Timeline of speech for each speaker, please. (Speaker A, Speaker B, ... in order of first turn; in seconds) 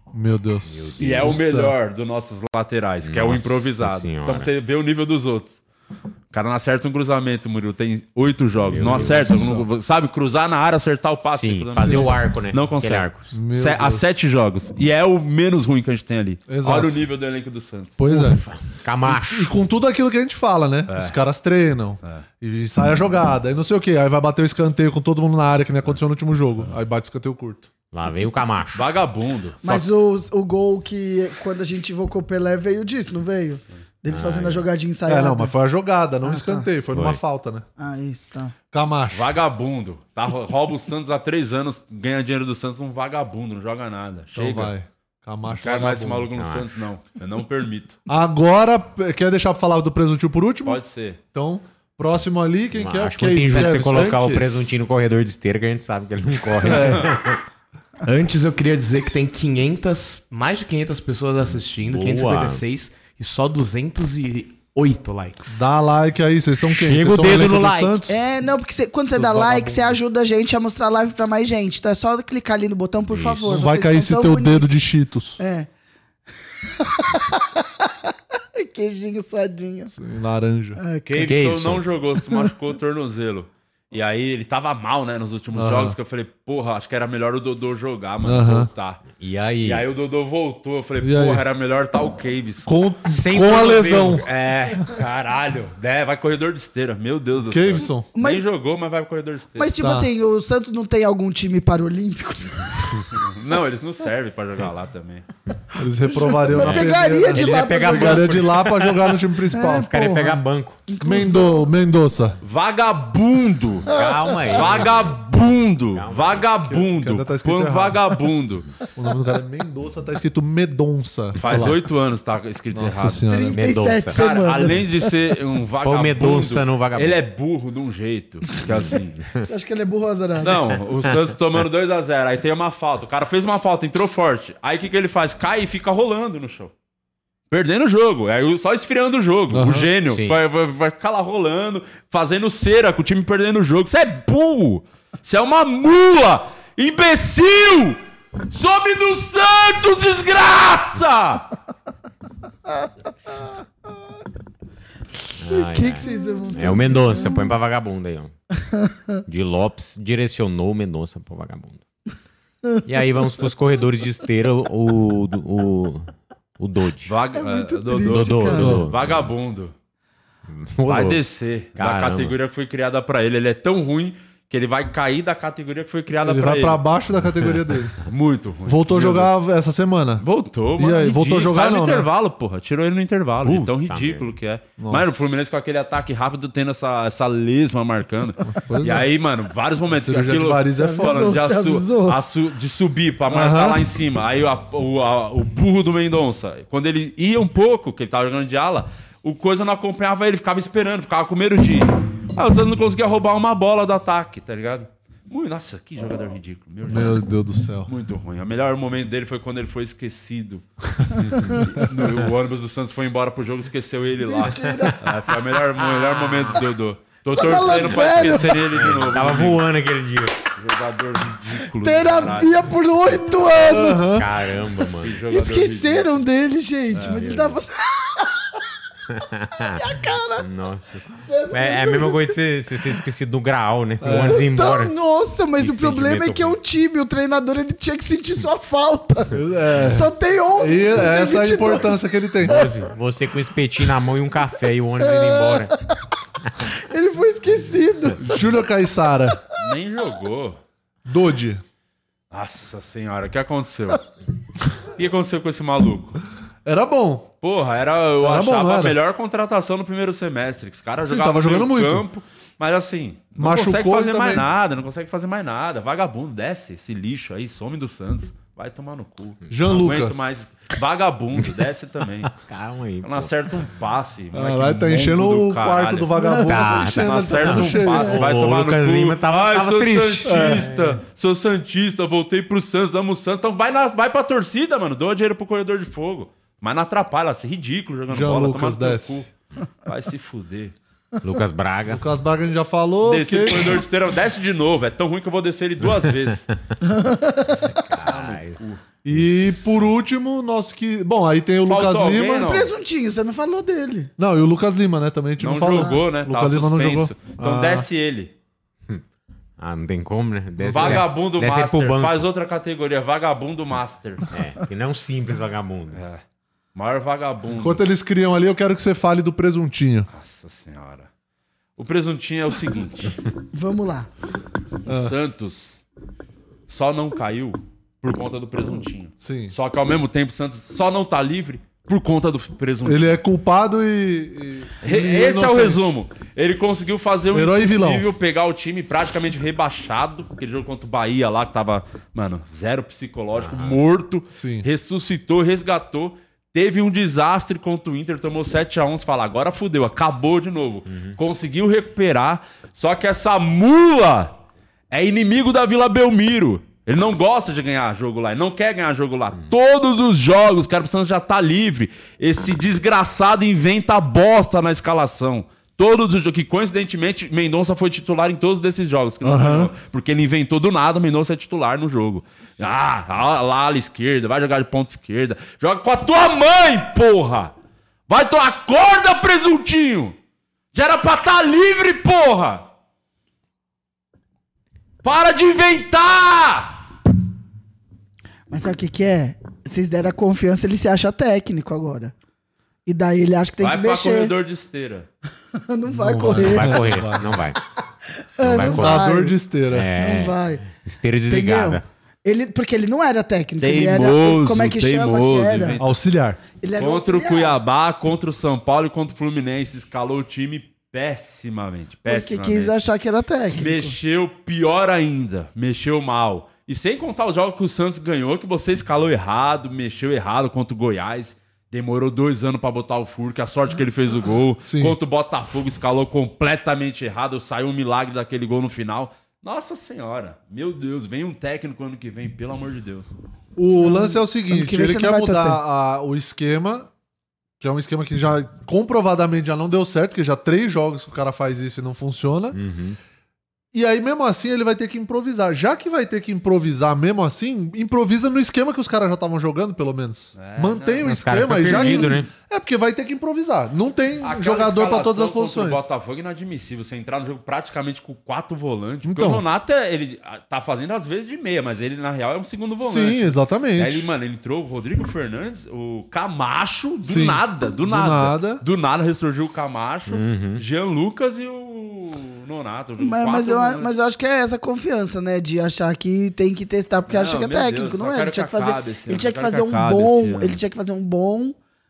Speaker A: 0.1-1.7, 8.8-9.6, 11.8-12.1, 13.3-14.1, 16.5-17.0, 18.0-18.4, 19.0-27.7, 35.1-37.6, 38.7-39.4, 44.3-46.3, 48.1-50.8, 51.3-54.2, 56.6-57.1, 65.5-68.1, 69.1-70.0, 73.5-75.4, 79.9-80.8, 85.5-86.0, 88.2-88.7, 91.0-91.4, 92.6-94.2, 97.5-98.1, 99.8-100.1, 105.8-109.9, 111.0-112.4, 116.7-118.0, 119.0-121.8, 122.7-123.5, 139.5-139.9, 168.6-168.9, 176.2-177.9, 178.7-180.2, 180.8-182.1, 184.8-185.4, 188.5-189.1, 189.9-191.4, 193.3-193.8, 206.9-207.9, 223.7-224.3, 234.0-234.4, 239.3-242.6, 248.2-249.4, 251.1-251.6, 256.6-257.3, 258.2-259.0, 261.1-262.0, 263.4-264.4, 269.5-270.3, 274.3-278.2, 280.2-280.7, 288.1-289.2, 291.9-293.8, 299.0-302.5, 304.2-307.9, 310.6-311.0, 317.5-320.1, 324.9-325.1, 329.2-329.5, 332.8-335.9, 337.3-338.1, 344.3-344.7, 369.2-369.7, 396.0-397.4, 398.6-399.9, 405.8-406.4, 424.6-425.0, 433.6-436.9, 437.6-442.6, 443.7-455.8, 459.0-459.4, 462.8-464.1, 467.0-468.6
Speaker B: 0.7-1.4, 3.0-4.5, 8.7-9.3, 11.3-13.3, 18.1-19.5, 27.9-28.9, 34.1-34.7, 36.9-37.2, 46.3-46.7, 52.7-57.4, 61.5-62.6, 66.7-68.0, 73.1-73.6, 81.2-81.8, 89.2-89.8, 93.1-94.2, 106.5-108.9, 109.7-110.8, 113.9-115.2, 115.9-116.5, 123.5-124.2, 125.8-127.2, 128.9-129.4, 140.1-140.4, 155.4-158.3, 159.3-161.8, 162.8-167.1, 168.0-169.3, 170.5-171.2, 171.8-172.3, 183.4-184.3, 214.8-215.1, 215.8-216.6, 217.5-220.4, 223.7-225.2, 227.1-227.6, 229.1-229.8, 230.4-234.9, 235.6-236.6, 242.4-245.7, 272.3-273.3, 276.4-281.0, 291.2-292.0, 297.9-298.6, 299.1-299.8, 309.6-312.2, 314.3-316.0, 343.3-343.8, 350.9-351.1, 396.1-397.6, 398.4-399.1, 399.7-401.8, 442.5-443.0, 451.0-452.3, 470.1-470.6
Speaker C: 1.0-5.6, 6.3-18.0, 20.9-21.1, 28.7-29.8, 39.1-44.7, 45.5-48.0, 50.6-51.2, 81.0-89.0, 89.6-92.7, 93.9-99.7, 103.2-105.3, 112.4-113.9, 114.5-118.7, 121.3-123.3, 124.1-129.2, 130.4-136.7, 137.5-148.0, 148.5-151.5, 167.1-169.7, 170.8-176.8, 178.1-179.3, 180.2-207.2, 207.9-210.6, 211.2-219.6, 220.6-222.7, 225.0-226.2, 226.9-227.3, 249.6-250.6, 252.3-254.0, 254.9-256.2, 257.4-272.3, 273.0-276.1, 277.0-289.3, 289.9-290.7, 293.0-296.4, 298.1-298.8, 301.6-302.7, 305.4-308.3, 310.7-314.2, 315.9-316.2, 316.7-317.8, 320.1-321.1, 321.8-323.2, 324.9-325.8, 326.7-333.2, 334.8-354.4, 354.9-377.5, 378.1-380.1, 380.7-382.6, 385.0-386.8, 393.6-395.1, 403.6-405.9, 406.8-412.7, 413.5-433.1, 450.4-452.0, 454.2-473.9, 477.1-480.6
Speaker D: 29.6-35.5, 36.2-36.7, 37.8-38.5, 68.1-74.8, 75.4-75.7, 76.6-77.9, 78.5-79.9, 80.8-81.3, 98.2-98.4, 99.6-102.7, 106.0-108.5, 109.5-111.7, 123.3-125.1, 129.5-130.6, 155.5-157.5, 158.7-159.0, 162.7-163.1, 167.3-168.8, 190.8-192.2, 214.2-214.9, 217.3-218.6, 221.8-224.1, 225.3-228.5, 229.7-230.4, 231.1-232.4, 234.2-242.7, 245.0-245.7, 246.7-248.3, 276.2-276.8, 296.8-297.8, 302.4-304.1, 323.5-324.1, 388.5-392.1, 392.9-394.3, 395.6-396.8, 398.4-399.4, 399.9-400.7, 401.3-405.8, 406.6-407.6, 412.1-413.9, 433.8-435.6, 473.0-481.6
Speaker E: 53.5-54.7, 58.0-65.5